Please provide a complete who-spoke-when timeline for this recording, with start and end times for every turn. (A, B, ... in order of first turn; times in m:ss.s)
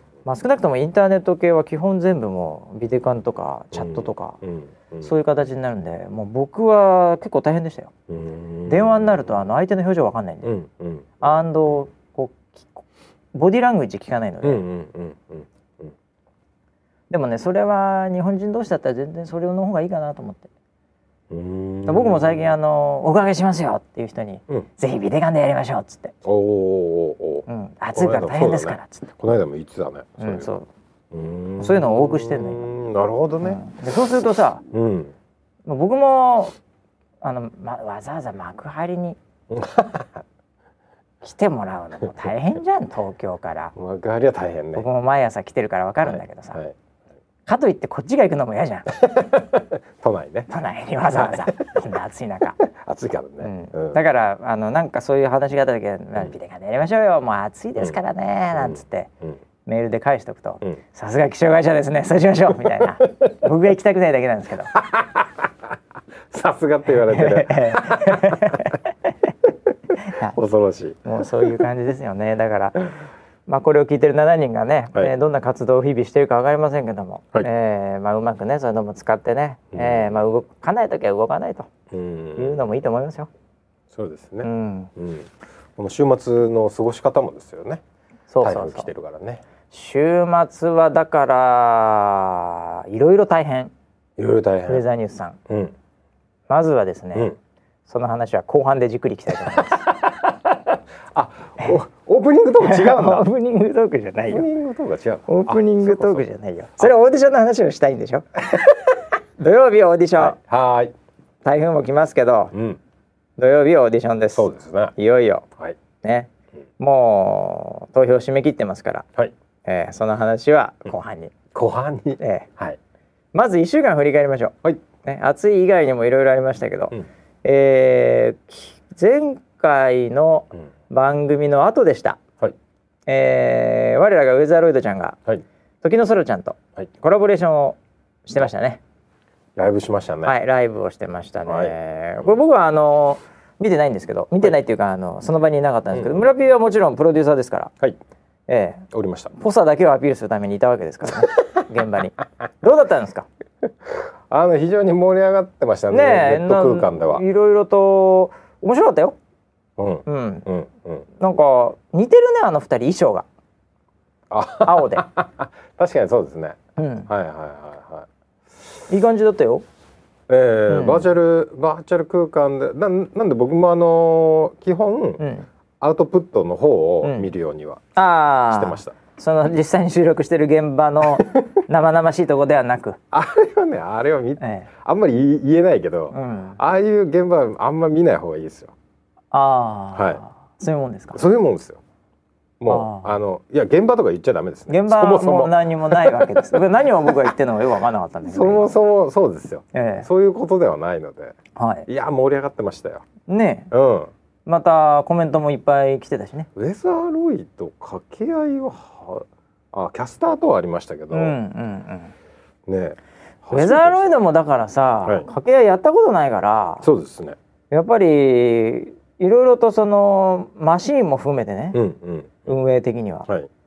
0:00.2-0:04.4 A
0:03.7-0:05.1 B
0:05.0-0:07.9 A
0:08.1-0:09.4 B
0:08.7-0:10.5 A
0:10.4-0:11.3 B
0:11.2-0:14.6 A
0:14.4-0:15.9 B
0:17.1-0:20.5 A
0:21.3-0:22.5 B
0:21.9-0:26.2 A
0:26.2-0:30.5 B
0:27.5-0:29.1 A
0:30.2-0:30.7 A
0:31.1-0:33.6 B
0:31.6-0:32.7 A
0:33.4-0:34.6 A
0:34.7-0:35.1 B
0:35.6-0:36.5 A
0:37.2-0:39.2 A
0:39.5-0:40.2 B
0:41.2-0:43.7 A
0:43.8-0:44.9 B
0:44.8-0:46.6 A
0:46.0-0:46.8 B
0:47.4-0:48.9 A
0:48.9-0:50.5 B
0:50.5-0:52.6 A
0:51.1-0:51.5 B
0:52.6-0:54.0 B
0:53.4-0:59.1 A
0:58.5-0:59.4 B
0:59.6-1:04.7 A
1:02.8-1:03.3 B
1:04.7-1:05.5 B
1:06.3-1:08.7 B
1:06.9-1:09.1 A
1:10.0-1:10.4 A
1:10.2-1:11.6 B
1:11.0-1:12.9 A
1:13.5-1:21.7 A
1:19.7-1:20.2 B
1:21.9-1:22.7 B
1:22.4-1:23.3 A
1:23.9-1:27.8 B
1:24.4-1:24.9 A
1:28.3-1:28.9 A
1:28.4-1:29.4 B
1:29.7-1:33.7 A
1:34.2-1:34.8 B
1:34.7-1:35.4 A
1:35.5-1:35.8 B
1:36.5-1:37.4 A
1:37.9-1:39.9 A
1:39.5-1:43.3 B
1:42.6-1:44.5 A
1:44.3-1:46.2 B
1:45.3-1:48.7 A
1:49.4-1:50.4 A
1:50.2-1:50.9 B
1:51.4-1:52.5 A
1:52.5-1:52.8 B
1:53.4-1:55.5 A
1:54.4-1:54.9 B
1:56.0-1:59.0 A
1:59.6-2:01.3 A
2:01.5-2:02.8 B
2:02.2-2:02.5 A
2:03.3-2:12.2 A
2:13.1-2:15.2 A
2:15.8-2:18.8 A
2:19.6-2:20.4 B
2:20.2-2:27.7 A
2:21.4-2:22.3 B
2:25.9-2:26.2 B
2:28.5-2:33.3 A
2:28.9-2:29.3 B
2:33.6-2:37.2 B
2:35.9-2:39.2 A
2:39.8-2:41.0 B
2:40.0-2:40.4 A
2:41.2-2:43.2 A
2:44.3-2:48.1 B
2:44.6-2:45.0 A
2:46.8-2:47.1 A
2:48.9-2:49.6 A
2:50.3-2:55.2 B
2:50.7-2:51.1 A
2:55.2-2:55.5 A
2:55.8-2:57.9 B
2:57.0-2:57.3 A
2:57.9-3:03.0 A
2:58.5-2:59.0 B
3:03.1-3:08.7 B
3:04.4-3:04.7 A
3:06.1-3:06.6 A
3:09.3-3:11.2 A
3:09.9-3:10.2 B
3:11.1-3:11.8 B
3:12.6-3:17.3 B
3:12.7-3:13.1 A
3:14.7-3:18.7 A
3:18.2-3:21.4 B
3:19.7-3:20.1 A
3:21.6-3:21.9 A
3:21.9-3:23.0 B
3:23.3-3:23.7 A
3:23.7-3:24.1 B
3:24.4-3:26.5 A
3:26.6-3:31.4 B
3:31.1-3:32.1 A
3:32.7-3:34.1 B
3:33.5-3:36.9 A
3:36.8-3:37.4 B
3:37.7-3:41.8 A
3:41.7-3:42.5 B
3:42.5-3:43.3 A